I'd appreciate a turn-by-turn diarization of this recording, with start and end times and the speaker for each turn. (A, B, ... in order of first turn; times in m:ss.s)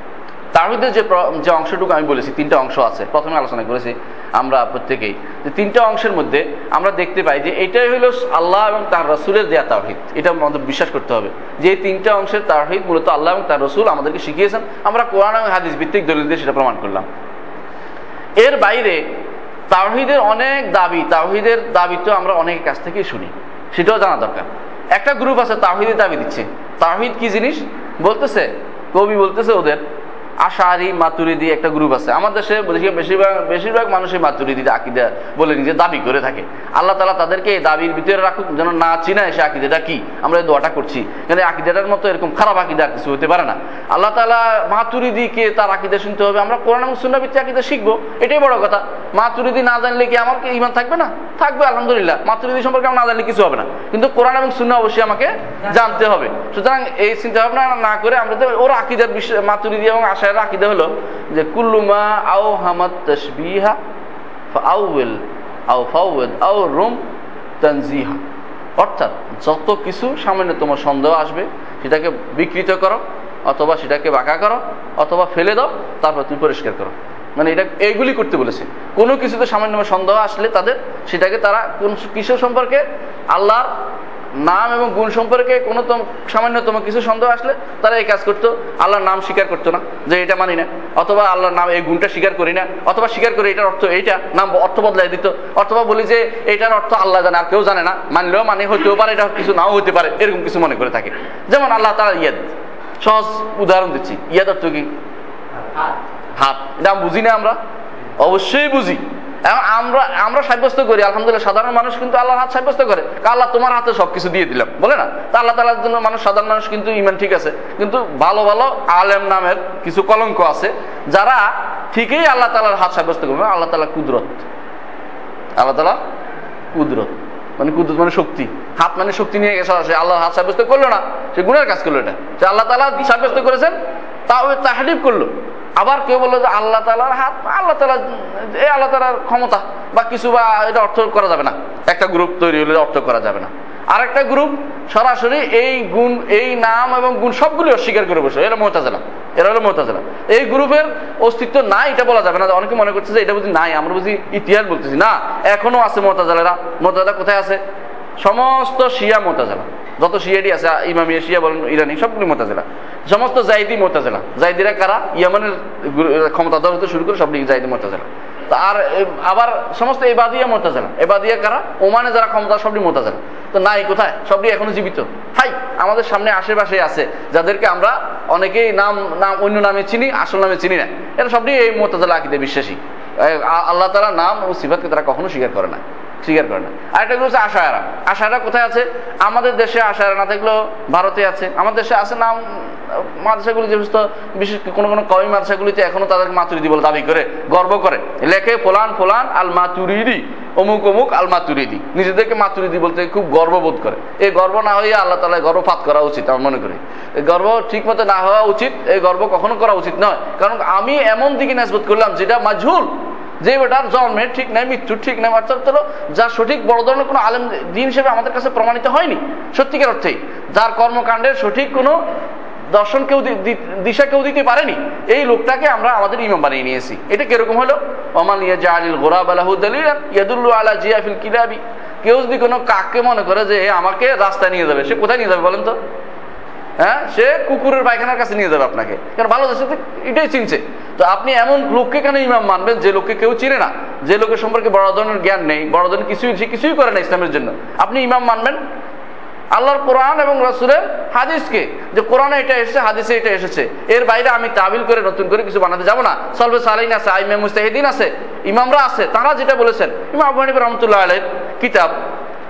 0:00.5-0:17.0 A
0:18.4-0:19.0 A
0:19.7-0:29.8 A
0:30.4-1:03.8 A
1:04.5-1:05.2 A
1:05.7-1:07.0 A
1:07.6-1:08.2 A
1:08.8-1:23.7 A
1:24.4-1:44.9 A
1:46.4-1:47.6 A
1:48.2-2:04.4 A
2:05.6-2:06.0 A
2:06.7-2:13.7 A
2:14.3-2:37.6 A
2:38.2-3:32.9 A
3:33.4-3:42.0 A
3:42.7-3:55.7 A
3:56.8-4:08.6 A
4:09.5-4:21.9 A